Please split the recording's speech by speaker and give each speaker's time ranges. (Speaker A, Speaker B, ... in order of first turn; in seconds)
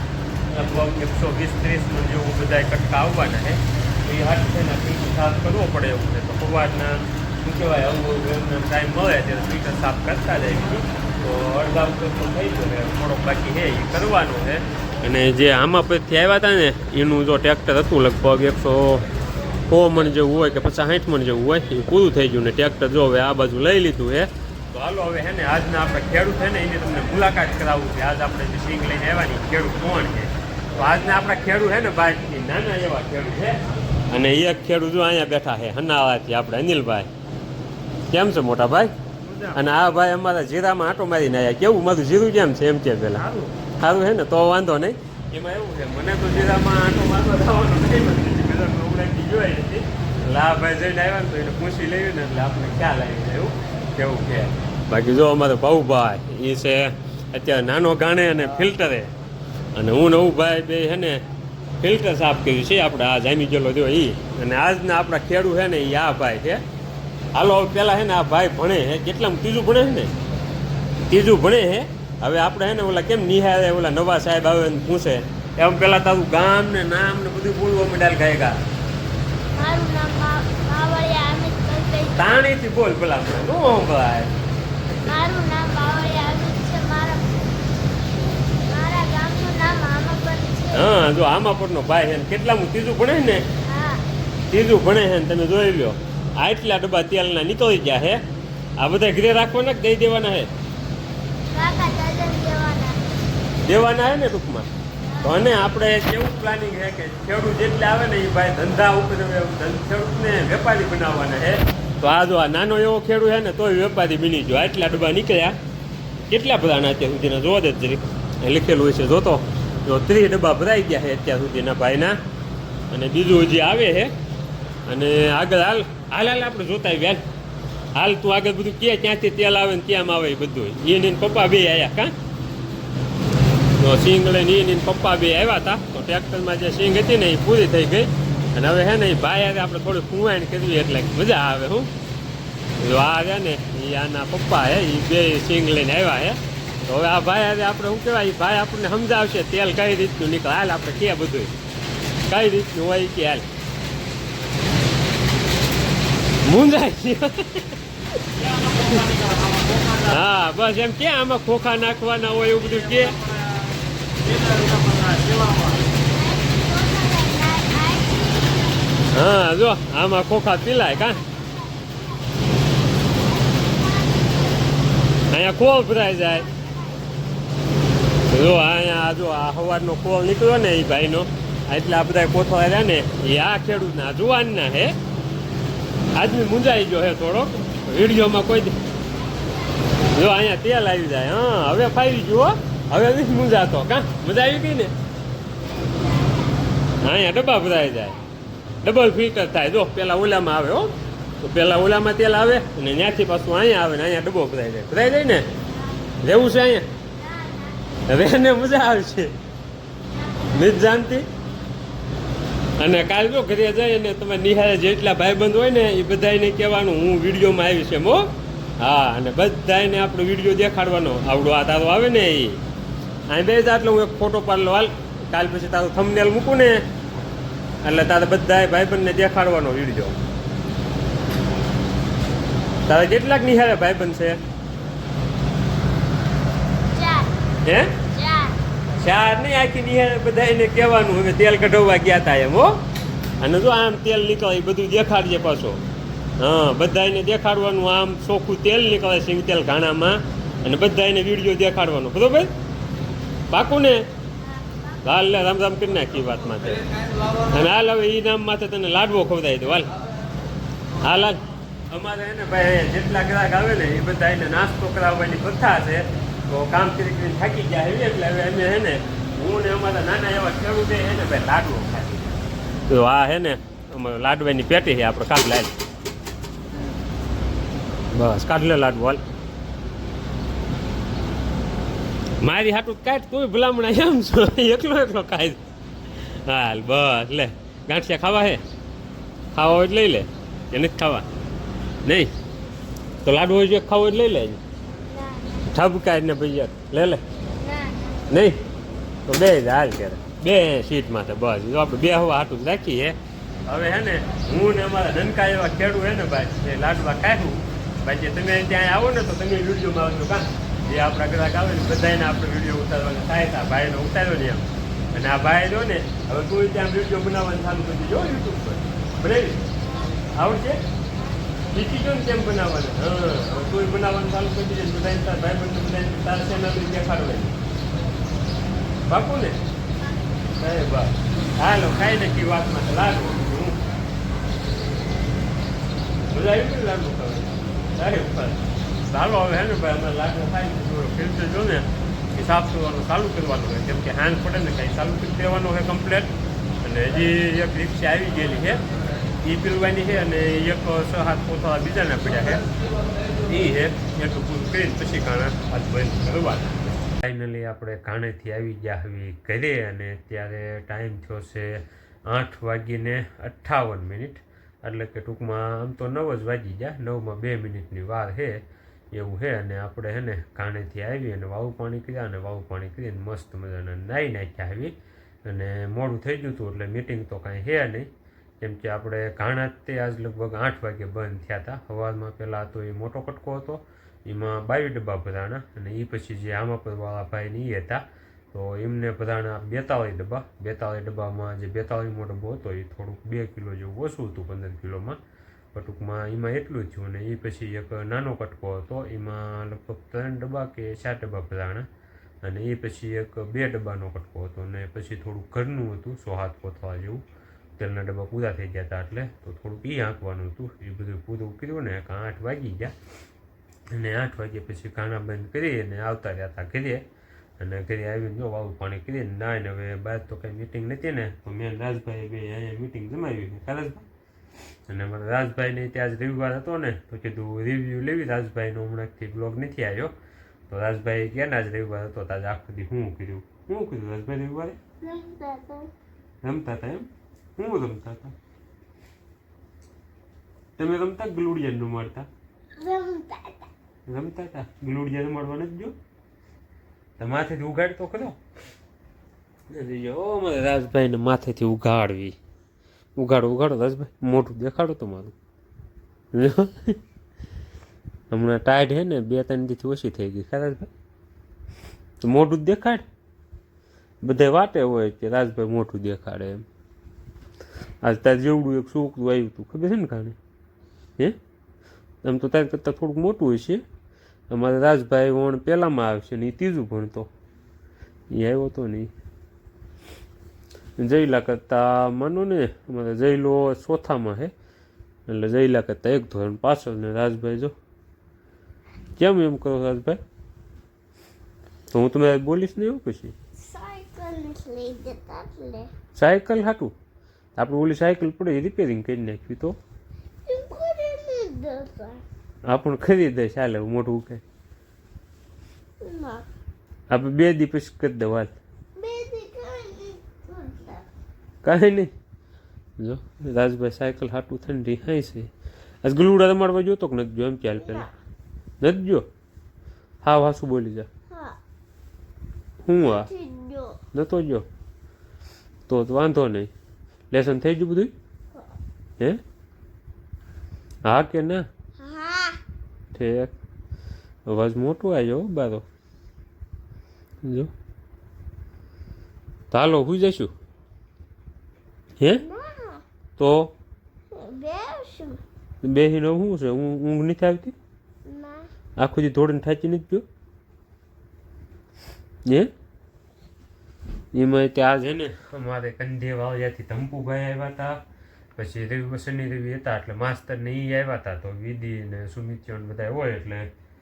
Speaker A: 0.5-19.1, 19.7-33.6, 34.1-37.1, 38.1-38.9, 39.5-59.1, 59.8-61.2, 61.8-66.6, 67.3-70.1, 71.1-78.6, 82.2-84.4, 90.7-93.5, 94.5-98.2, 98.8-100.5, 103.6-104.7, 105.2-115.6, 116.3-122.2, 122.9-124.1, 124.9-127.2, 128.0-132.1, 133.8-141.9, 142.8-151.5, 152.3-153.5, 156.4-157.8, 158.6-159.1, 159.9-163.2, 169.1-171.2, 175.3-176.5, 178.3-185.0, 186.2-188.8, 190.0-194.9, 197.0-198.2, 198.8-205.5, 206.2-206.9, 208.1-209.3, 210.5-211.3, 212.8-222.6, 223.3-226.9, 227.8-230.2, 232.9-234.4, 237.7-238.0, 239.0-242.8, 243.4-245.8, 246.4-252.5, 253.5-254.1, 255.0-259.9, 261.0-275.7, 278.1-279.2, 282.4-285.6, 286.1-288.6, 289.5-291.3, 292.1-292.3, 293.2-294.6, 295.7-297.2, 298.3-298.6, 299.3-319.7, 320.3-320.8, 321.7-327.6, 329.1-329.6, 330.6-333.8, 336.3-346.3, 346.8-348.8, 349.4-352.6, 353.4-374.9, 375.4-378.1, 378.6-395.2, 395.7-401.9, 402.4-407.2, 407.8-412.9, 413.9-417.1, 417.6-424.1, 424.9-430.1, 430.7-434.8, 436.4-438.4, 440.8-442.3, 444.1-445.9, 447.2-448.4, 449.7-452.4, 453.2-455.4, 456.3-457.0, 458.3-460.9, 462.2-463.0, 464.2-466.6, 468.0-470.4, 472.2-473.8, 474.5-477.3, 478.3-479.1, 481.0-484.5, 485.3-487.7, 489.2-490.2, 491.9-493.3, 496.1-496.9, 497.6-499.8, 502.7-504.4, 507.1-508.6, 511.6-512.1, 513.0-515.5, 516.0-518.1, 518.8-519.3, 520.2-521.1, 522.9-523.3, 524.1-524.7, 525.9-526.7, 527.3-528.1, 531.0-531.7, 533.1-533.5, 534.5-535.9, 537.4-537.7, 539.7-540.5, 543.4-543.7, 545.8-547.8, 549.0-550.2, 554.3-558.0, 558.6-563.7
Speaker B: 79.5-82.4, 85.0-87.5, 88.7-90.9, 93.6-94.0, 101.5-103.0, 105.1-105.3, 165.9-169.1, 171.1-174.8, 176.2-177.2, 189.1-190.4, 195.6-196.9, 197.7-198.2, 205.7-206.0, 207.2-207.8, 210.1-210.8, 236.9-237.3, 238.1-238.6, 254.4-255.2, 295.0-295.7, 297.6-298.3, 319.8-320.3, 321.1-321.7, 435.0-435.9, 442.8-443.7, 493.6-495.9, 500.5-502.2, 506.0-506.5, 509.0-511.1, 517.8-518.1, 521.3-521.6, 523.0-524.0, 532.0-532.6, 542.4-543.0, 544.3-545.4, 548.2-548.7